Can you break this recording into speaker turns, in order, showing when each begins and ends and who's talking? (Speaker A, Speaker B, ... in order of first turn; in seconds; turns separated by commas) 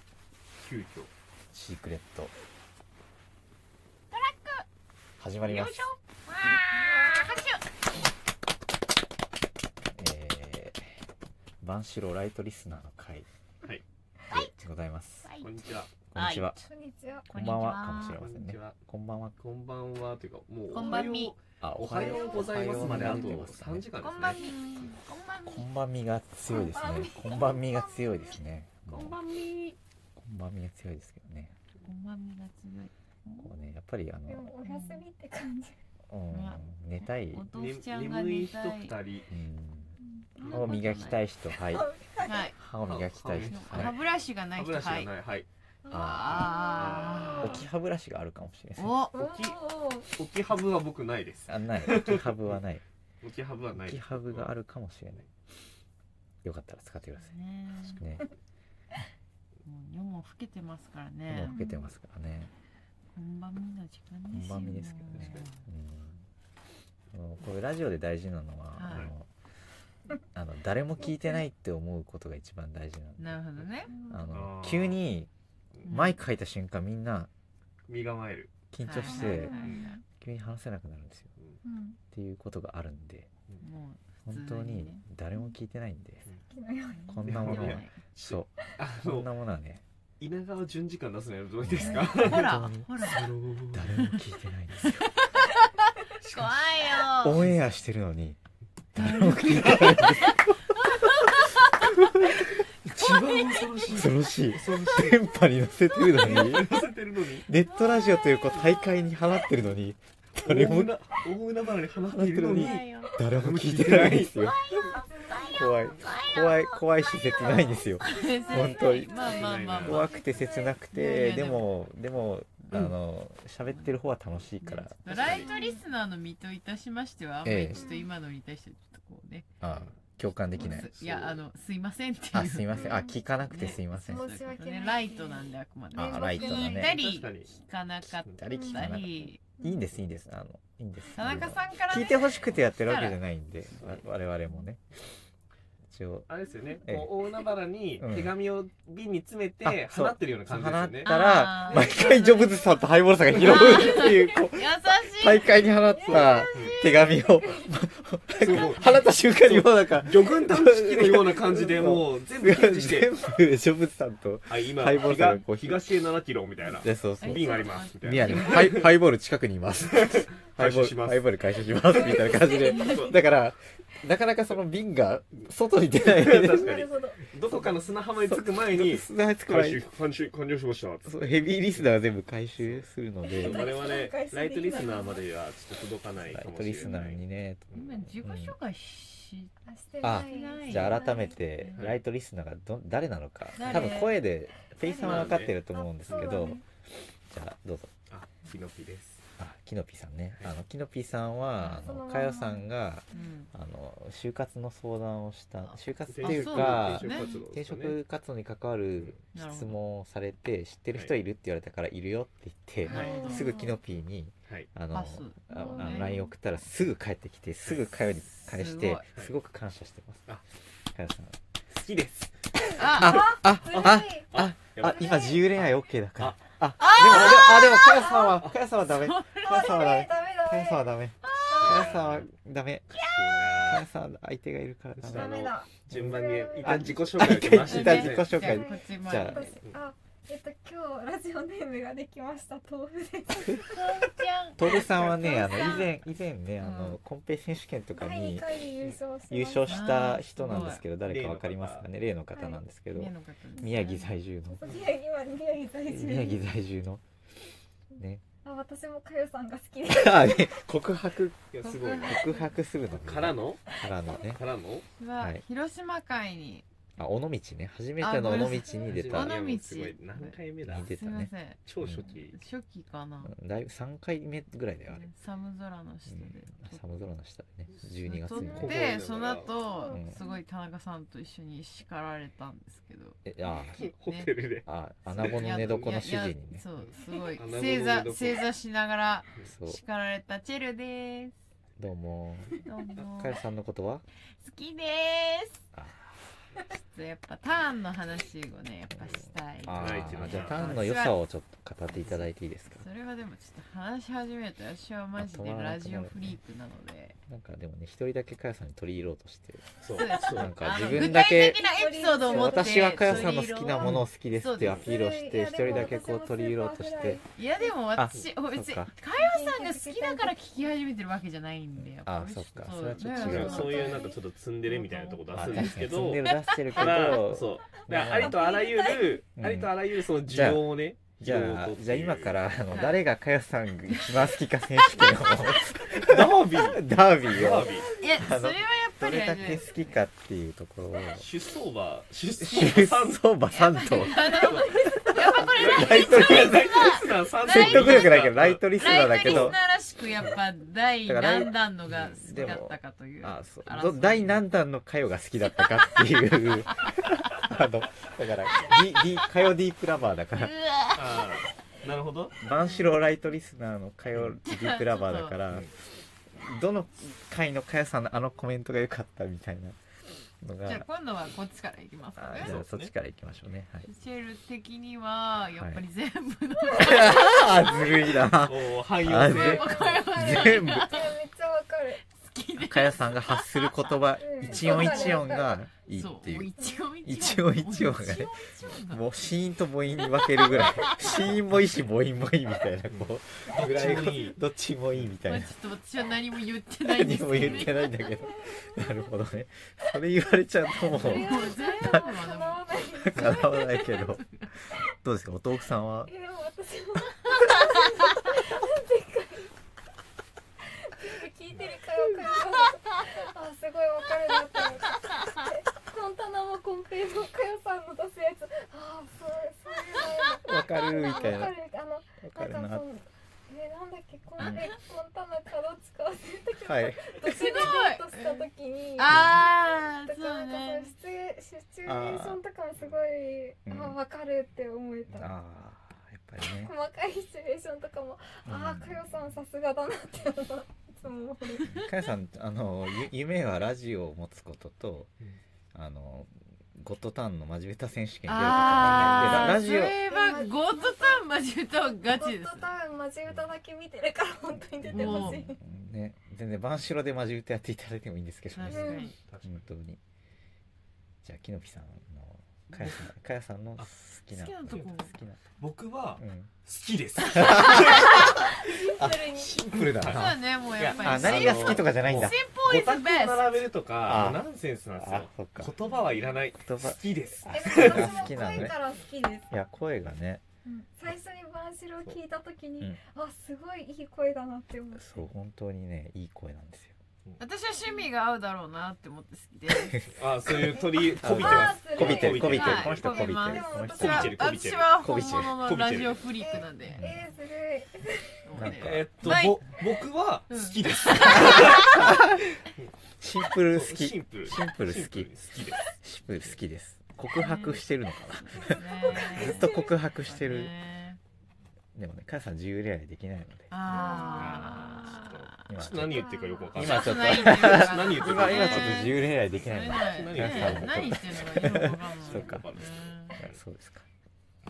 Speaker A: 0.6-1.1, Speaker B: 1.5-2.3, Speaker C: 4.1-4.7, Speaker B: 5.2-5.9, Speaker C: 5.4-7.7, Speaker D: 6.7-7.5, Speaker B: 9.9-10.8, Speaker B: 11.6-13.2, Speaker C: 14.3-14.7, Speaker B: 14.3-15.3, Speaker C: 15.2-15.5, Speaker A: 15.4-15.9, Speaker B: 16.1-16.6, Speaker C: 16.1-16.5, Speaker D: 16.5-17.3, Speaker C: 17.3-18.2, Speaker B: 17.3-19.4, Speaker A: 18.1-18.8, Speaker A: 19.4-24.6, Speaker C: 20.7-21.3, Speaker D: 20.8-21.1, Speaker B: 21.6-23.9, Speaker D: 21.9-23.4, Speaker C: 22.7-23.2, Speaker C: 24.0-25.7, Speaker D: 24.4-24.9, Speaker B: 25.4-29.2, Speaker D: 26.5-28.4, Speaker A: 28.9-29.8, Speaker B: 30.2-31.5, Speaker C: 31.8-33.5, Speaker B: 33.4-34.5, Speaker D: 34.3-35.7, Speaker C: 34.6-35.0, Speaker B: 36.1-37.5, Speaker C: 36.3-39.0, Speaker A: 37.5-39.3, Speaker B: 39.3-40.0, Speaker D: 40.0-40.8, Speaker C: 40.5-41.2, Speaker B: 40.5-41.9, Speaker D: 41.7-42.5, Speaker C: 42.2-42.6, Speaker B: 42.5-43.9, Speaker A: 42.8-44.0, Speaker C: 43.4-45.1, Speaker A: 44.5-45.5, Speaker D: 45.8-47.6, Speaker B: 45.9-46.5, Speaker C: 46.0-47.5, Speaker A: 46.8-47.6, Speaker B: 47.4-48.9, Speaker C: 48.8-49.2, Speaker D: 49.1-50.1, Speaker A: 49.2-52.6, Speaker B: 51.5-52.8, Speaker A: 53.2-54.5, Speaker B: 53.8-55.2, Speaker B: 56.4-57.4, Speaker C: 57.2-58.0, Speaker B: 57.9-58.3, Speaker C: 59.6-61.8, Speaker B: 61.3-62.5, Speaker D: 61.4-61.8, Speaker C: 63.1-65.6, Speaker B: 64.3-66.2, Speaker A: 65.1-65.5, Speaker B: 67.1-69.3, Speaker C: 68.7-69.1, Speaker A: 68.8-69.1, Speaker B: 70.3-73.4, Speaker D: 71.0-71.4, Speaker C: 73.2-74.0, Speaker D: 73.9-74.4, Speaker B: 74.1-75.3, Speaker A: 74.3-75.0, Speaker C: 75.8-76.2, Speaker B: 75.8-77.3, Speaker A: 77.9-78.5, Speaker B: 78.7-81.3, Speaker C: 78.8-80.0, Speaker D: 79.0-79.9, Speaker A: 79.2-79.9, Speaker D: 81.6-82.0, Speaker B: 82.1-83.3, Speaker C: 83.6-85.1, Speaker B: 84.2-86.2, Speaker D: 86.5-87.6, Speaker C: 86.9-88.0, Speaker B: 87.1-89.8, Speaker A: 87.2-89.3, Speaker A: 90.2-94.0, Speaker B: 91.6-92.9, Speaker C: 91.8-93.3, Speaker B: 93.7-95.1, Speaker C: 93.9-97.5, Speaker A: 96.2-97.6, Speaker B: 97.2-98.4, Speaker C: 98.9-101.9, Speaker B: 98.9-101.1, Speaker B: 101.8-102.1, Speaker A: 102.8-105.3, Speaker C: 103.1-103.6, Speaker B: 103.9-106.7, Speaker A: 106.1-107.5, Speaker B: 107.5-110.9, Speaker D: 107.8-108.7, Speaker A: 110.4-114.4, Speaker B: 112.1-114.6, Speaker C: 112.5-113.2, Speaker C: 114.5-116.8, Speaker D: 114.9-116.0, Speaker B: 115.5-119.2, Speaker D: 117.3-119.2, Speaker C: 118.0-120.3, Speaker A: 119.1-120.1, Speaker B: 119.8-125.3, Speaker D: 120.2-120.8, Speaker C: 120.8-121.7, Speaker C: 122.6-122.9, Speaker C: 123.6-123.9, Speaker C: 124.6-129.5, Speaker A: 125.1-125.5, Speaker D: 125.4-125.8, Speaker B: 127.4-127.8, Speaker D: 127.8-128.0, Speaker B: 129.6-130.9, Speaker A: 129.7-131.4, Speaker C: 130.6-139.5, Speaker B: 132.3-134.2, Speaker D: 132.7-133.2, Speaker D: 134.1-136.9, Speaker B: 135.9-136.9, Speaker A: 136.8-137.6, Speaker B: 138.1-144.8, Speaker A: 138.2-138.5, Speaker D: 138.5-138.9, Speaker C: 141.1-143.2, Speaker B: 145.9-146.3, Speaker A: 146.3-151.2, Speaker B: 146.8-147.1, Speaker B: 148.0-148.3, Speaker B: 149.6-165.8, Speaker C: 151.0-155.5, Speaker D: 155.9-157.8, Speaker A: 156.0-156.8, Speaker A: 158.4-163.1, Speaker A: 164.5-169.0, Speaker B: 166.8-176.7, Speaker C: 167.2-168.8, Speaker A: 169.8-171.3, Speaker A: 171.8-173.2, Speaker D: 172.3-172.9, Speaker C: 172.7-173.1, Speaker A: 175.9-181.8, Speaker D: 176.4-177.3, Speaker B: 177.5-179.8, Speaker B: 181.1-183.7, Speaker A: 182.6-187.9, Speaker D: 183.2-185.2, Speaker B: 186.3-188.5, Speaker C: 187.7-189.5, Speaker D: 189.7-191.4, Speaker B: 190.0-196.6, Speaker C: 190.0-191.9, Speaker C: 193.5-194.2, Speaker D: 194.8-196.6, Speaker A: 194.9-195.5, Speaker B: 197.3-197.9, Speaker A: 198.1-199.2, Speaker B: 199.4-220.3, Speaker C: 201.6-201.9, Speaker D: 201.8-202.7, Speaker C: 203.1-203.5, Speaker C: 205.6-207.3, Speaker A: 206.1-207.9, Speaker C: 209.3-209.8, Speaker C: 212.8-213.5, Speaker D: 213.0-213.8, Speaker C: 214.9-216.2, Speaker D: 215.5-216.3, Speaker A: 217.7-217.9, Speaker C: 218.3-219.1, Speaker B: 220.9-221.4, Speaker A: 221.7-226.4, Speaker D: 222.6-225.4, Speaker C: 222.8-223.2, Speaker B: 222.8-232.9, Speaker C: 226.8-228.0, Speaker A: 227.0-227.5, Speaker D: 227.9-228.4, Speaker C: 228.8-229.8, Speaker D: 229.4-230.9, Speaker C: 231.2-231.6, Speaker D: 231.5-231.9, Speaker A: 231.5-232.3, Speaker A: 232.9-233.8, Speaker C: 232.9-233.5, Speaker B: 233.6-236.1, Speaker A: 235.0-238.6, Speaker D: 235.1-237.2, Speaker B: 236.6-239.4, Speaker C: 237.5-239.6, Speaker D: 238.4-244.1, Speaker C: 243.5-245.5, Speaker B: 244.6-248.5, Speaker A: 244.8-245.6, Speaker D: 245.0-245.9, Speaker C: 246.6-247.0, Speaker D: 247.9-249.9, Speaker B: 249.3-254.7, Speaker C: 249.6-250.8, Speaker A: 251.0-251.9, Speaker D: 252.3-252.6, Speaker C: 252.9-254.2, Speaker D: 254.5-256.4, Speaker B: 255.9-257.0, Speaker B: 258.0-258.2, Speaker D: 258.4-260.6, Speaker B: 259.9-264.4, Speaker A: 261.5-262.2, Speaker C: 261.6-262.6, Speaker A: 262.9-263.7, Speaker A: 264.2-264.9, Speaker C: 265.0-266.6, Speaker B: 265.2-265.4, Speaker B: 267.0-269.3, Speaker C: 268.0-273.3, Speaker A: 268.9-270.9, Speaker B: 270.6-272.1, Speaker A: 271.6-272.4, Speaker B: 273.2-275.1, Speaker C: 274.9-277.0, Speaker B: 276.1-278.7, Speaker C: 278.0-284.3, Speaker D: 278.4-278.7, Speaker A: 278.4-279.5, Speaker D: 279.5-280.4, Speaker B: 279.9-280.2, Speaker B: 283.2-283.9, Speaker A: 283.8-285.9, Speaker B: 284.6-286.6, Speaker C: 285.2-291.4, Speaker A: 286.8-288.4, Speaker B: 289.4-289.8, Speaker B: 291.8-294.0, Speaker C: 292.6-293.4, Speaker C: 294.4-295.6, Speaker B: 295.7-296.1, Speaker C: 296.7-301.2, Speaker B: 298.9-302.9, Speaker A: 299.7-300.7, Speaker C: 301.9-307.2, Speaker B: 305.2-306.4, Speaker B: 307.3-311.6, Speaker A: 309.8-310.6, Speaker C: 309.9-314.8, Speaker D: 311.4-312.9, Speaker B: 312.2-317.2, Speaker A: 313.0-313.3, Speaker A: 314.6-314.9, Speaker D: 314.7-317.7, Speaker C: 317.3-326.9, Speaker B: 317.9-318.9, Speaker D: 319.1-320.3, Speaker B: 321.8-323.7, Speaker D: 323.1-324.2, Speaker A: 323.1-332.4, Speaker B: 325.3-328.4, Speaker D: 327.9-329.2, Speaker B: 329.4-329.7, Speaker B: 330.2-341.3, Speaker C: 332.7-333.0, Speaker C: 333.9-334.3, Speaker A: 335.9-337.9, Speaker C: 337.8-340.0, Speaker A: 341.1-343.3, Speaker B: 342.4-346.8, Speaker C: 343.5-354.4, Speaker A: 344.2-349.5, Speaker D: 344.3-345.1, Speaker B: 347.5-349.6, Speaker B: 351.1-360.6, Speaker C: 355.4-356.9, Speaker C: 360.3-361.2, Speaker A: 360.9-362.4, Speaker B: 362.4-365.7, Speaker C: 362.6-362.9, Speaker C: 364.4-365.4, Speaker B: 366.4-369.8, Speaker B: 370.4-370.8, Speaker C: 370.6-372.5, Speaker B: 372.2-373.9, Speaker A: 372.4-372.9, Speaker C: 373.8-378.1, Speaker B: 376.7-381.0, Speaker A: 377.9-379.9, Speaker C: 379.2-381.1, Speaker D: 379.5-382.0, Speaker C: 382.1-384.0, Speaker B: 382.6-386.5, Speaker D: 384.2-385.6, Speaker C: 384.6-385.3, Speaker C: 385.9-389.1, Speaker D: 386.6-386.9, Speaker B: 387.0-388.3, Speaker B: 388.9-395.5, Speaker C: 390.0-391.2, Speaker A: 392.9-394.4, Speaker C: 395.2-397.9, Speaker B: 396.8-402.1, Speaker D: 397.9-398.8, Speaker C: 400.9-404.5, Speaker D: 400.9-403.6, Speaker B: 403.0-404.2, Speaker B: 405.0-406.1, Speaker D: 406.1-409.5, Speaker D: 410.8-435.3, Speaker B: 420.4-421.6, Speaker B: 422.2-422.8, Speaker C: 424.4-424.7, Speaker B: 426.6-427.1, Speaker C: 427.2-430.9, Speaker B: 431.9-432.4, Speaker B: 433.6-434.0, Speaker B: 435.1-436.7, Speaker D: 436.5-441.8, Speaker B: 438.4-439.1, Speaker B: 441.6-445.1, Speaker B: 445.7-450.0, Speaker C: 448.2-452.7, Speaker A: 448.7-449.6, Speaker D: 450.0-455.6, Speaker B: 454.8-460.0, Speaker C: 454.9-455.4, Speaker C: 458.6-459.1, Speaker A: 458.7-459.6, Speaker D: 458.7-459.1, Speaker B: 461.2-465.4, Speaker A: 462.7-463.1, Speaker C: 464.3-465.1, Speaker A: 465.6-468.2, Speaker B: 466.2-466.5, Speaker B: 467.3-470.4, Speaker C: 467.5-468.1, Speaker D: 468.3-469.6, Speaker A: 469.8-478.7, Speaker C: 470.1-473.7, Speaker B: 470.9-472.4, Speaker B: 474.1-474.4, Speaker B: 474.9-475.7, Speaker C: 475.9-476.2, Speaker B: 476.6-478.8, Speaker D: 477.5-479.5, Speaker B: 479.5-480.4, Speaker D: 480.6-485.3, Speaker B: 485.0-486.9, Speaker C: 487.4-490.1, Speaker A: 490.1-496.3, Speaker D: 490.6-494.2, Speaker B: 491.2-494.4, Speaker C: 492.5-497.0, Speaker B: 494.9-495.6, Speaker D: 496.4-498.5, Speaker B: 496.9-497.3, Speaker C: 498.4-499.7, Speaker B: 498.5-499.4, Speaker A: 498.7-502.0, Speaker C: 500.5-502.1, Speaker B: 501.4-502.4, Speaker B: 503.2-505.4, Speaker A: 503.7-505.9, Speaker B: 505.9-510.7, Speaker C: 507.3-511.2, Speaker D: 509.1-509.8, Speaker B: 511.9-513.7, Speaker C: 513.7-515.7, Speaker A: 513.9-523.6, Speaker D: 513.9-515.2, Speaker B: 515.7-522.7, Speaker D: 516.0-516.8, Speaker C: 516.8-523.4, Speaker B: 523.4-524.0